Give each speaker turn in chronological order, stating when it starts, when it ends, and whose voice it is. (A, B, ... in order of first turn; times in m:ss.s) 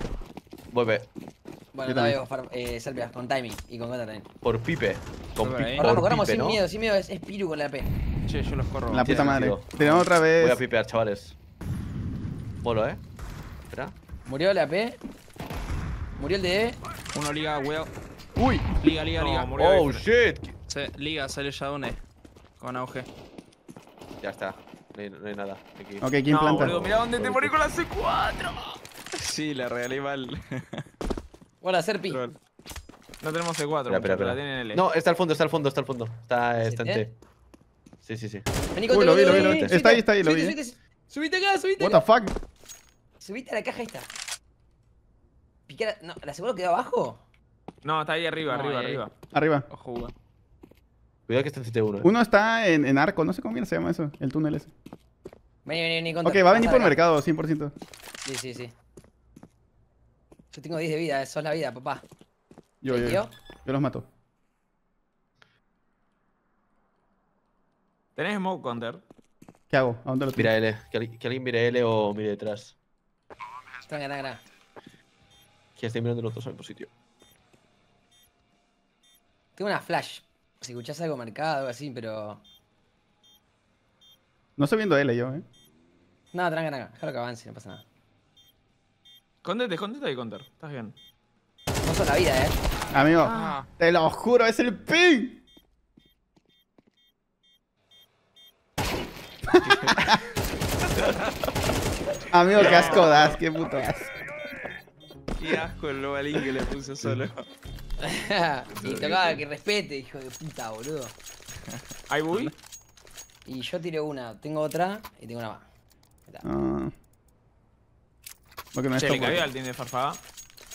0:00.7-0:01.1 A
0:01.7-0:04.3 B
0:01.8-0:02.2 C
0:04.4-0:06.6 A
0:05.4-0:06.0 D
0:05.8-0:07.9 B
0:08.2-0:10.0 D
0:08.9-0:10.6 C
0:09.0-0:09.7 A
0:10.4-0:11.3 A
0:12.6-0:13.0 A
0:13.7-0:13.9 A
0:14.2-0:15.0 B
0:16.2-0:16.8 B
0:17.1-0:17.9 D
0:18.4-0:18.7 C
0:18.8-0:19.5 D
0:19.2-0:20.0 E
0:19.6-0:20.5 A
0:20.7-0:22.0 D
0:22.6-0:23.1 D
0:24.2-0:27.5 A
0:26.0-0:26.8 C
0:26.3-0:28.8 E
0:29.1-0:30.8 D
0:31.6-0:32.2 B
0:32.1-0:32.4 D
0:33.2-0:34.8 E
0:33.9-0:37.1 A
0:36.6-0:37.0 B
0:38.0-0:38.5 A
0:38.7-0:42.0 B
0:38.9-0:40.6 C
0:39.2-0:39.7 A
0:41.8-0:42.3 C
0:43.2-0:44.1 B
0:45.7-0:47.2 B
0:47.8-0:49.1 E
0:48.5-0:49.0 D
0:49.3-0:49.7 C
0:49.7-0:50.1 D
0:51.3-0:52.1 A
0:52.0-0:54.7 C
0:55.6-0:57.0 B
0:56.2-0:57.7 C
0:58.2-0:58.7 B
1:00.5-1:02.0 B
1:02.8-1:04.1 C
1:02.9-1:03.3 B
1:08.2-1:09.0 E
1:09.7-1:10.5 C
1:10.4-1:12.7 A
1:13.9-1:14.4 B
1:15.8-1:16.9 A
1:19.6-1:22.4 B
1:24.6-1:25.4 C
1:26.3-1:27.8 B
1:29.4-1:30.9 E
1:31.8-1:32.6 B
1:32.9-1:35.4 C
1:33.3-1:33.7 D
1:39.6-1:40.1 D
1:42.3-1:44.1 C
1:42.6-1:43.2 E
1:45.4-1:47.4 D
1:48.0-1:51.1 B
1:48.8-1:49.4 A
1:52.1-1:52.5 E
1:53.4-1:55.6 B
1:56.4-1:56.9 C
1:58.7-1:59.5 C
1:58.9-2:00.2 E